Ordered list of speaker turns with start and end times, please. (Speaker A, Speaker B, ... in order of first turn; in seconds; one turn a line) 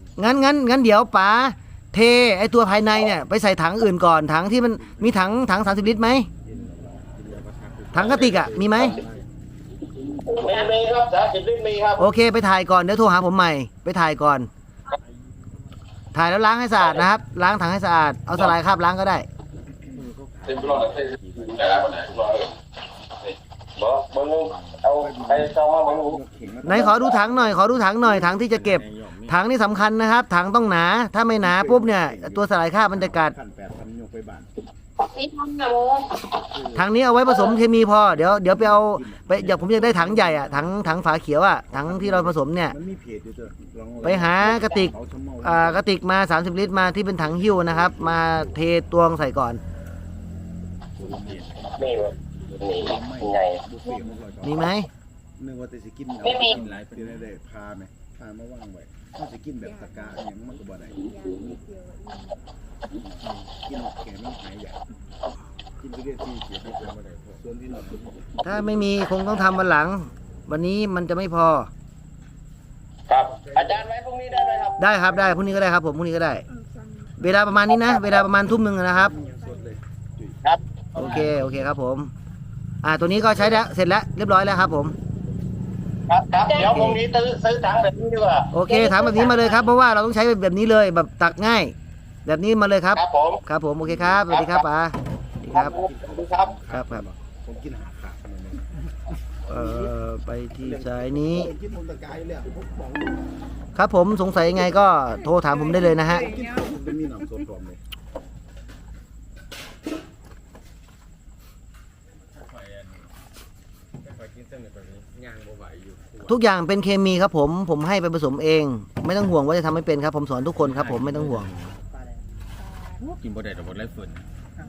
Speaker A: 0.2-6.3
Speaker B: 6.5-9.2
Speaker A: 7.9-9.0
Speaker C: 8.0-8.9
Speaker C: 10.0-12.0
Speaker A: 12.0-14.5
Speaker A: 16.1-19.3
Speaker C: 16.8-17.1
Speaker B: 19.8-22.1
Speaker C: 20.5-22.5
Speaker C: 23.3-26.2
Speaker B: 24.5-27.7
Speaker A: 26.6-33.4
Speaker D: 28.4-29.4
Speaker B: 31.4-34.5
Speaker E: 35.0-36.3
Speaker B: 36.5-40.9
Speaker A: 36.8-42.8
Speaker B: 41.7-45.9
Speaker A: 44.0-49.6
Speaker E: 44.4-44.9
Speaker B: 46.8-48.5
Speaker B: 51.0-51.9
Speaker D: 51.0-51.6
Speaker C: 51.8-53.6
Speaker B: 52.8-54.6
Speaker A: 54.4-54.9
Speaker B: 55.4-61.6
Speaker E: 56.2-56.6
Speaker D: 56.6-57.2
Speaker F: 59.7-60.2
Speaker F: 61.0-62.4
Speaker B: 63.0-64.8
Speaker B: 65.8-68.4
Speaker D: 66.7-67.4
Speaker A: 68.4-71.7
Speaker C: 73.1-74.9
Speaker A: 74.8-76.5
Speaker F: 76.9-77.1
Speaker A: 77.2-79.2
Speaker C: 77.7-78.2
Speaker B: 79.0-80.4
Speaker F: 79.2-79.6
Speaker A: 81.0-82.1
Speaker A: 82.8-85.0
Speaker C: 86.1-88.5
Speaker E: 86.3-86.8
Speaker A: 88.5-91.8
Speaker E: 88.6-89.6
Speaker A: 92.3-95.7
Speaker C: 93.0-93.4
Speaker C: 94.2-94.7
Speaker C: 95.5-96.5
Speaker B: 95.6-98.7
Speaker A: 96.7-97.0
Speaker B: 99.5-100.0
Speaker A: 99.5-101.5
Speaker B: 100.6-103.3
Speaker A: 103.8-106.3
Speaker F: 105.7-106.7
Speaker B: 106.2-107.8
Speaker D: 114.1-116.3
Speaker A: 116.2-121.5
Speaker D: 120.7-121.8
Speaker D: 123.0-124.2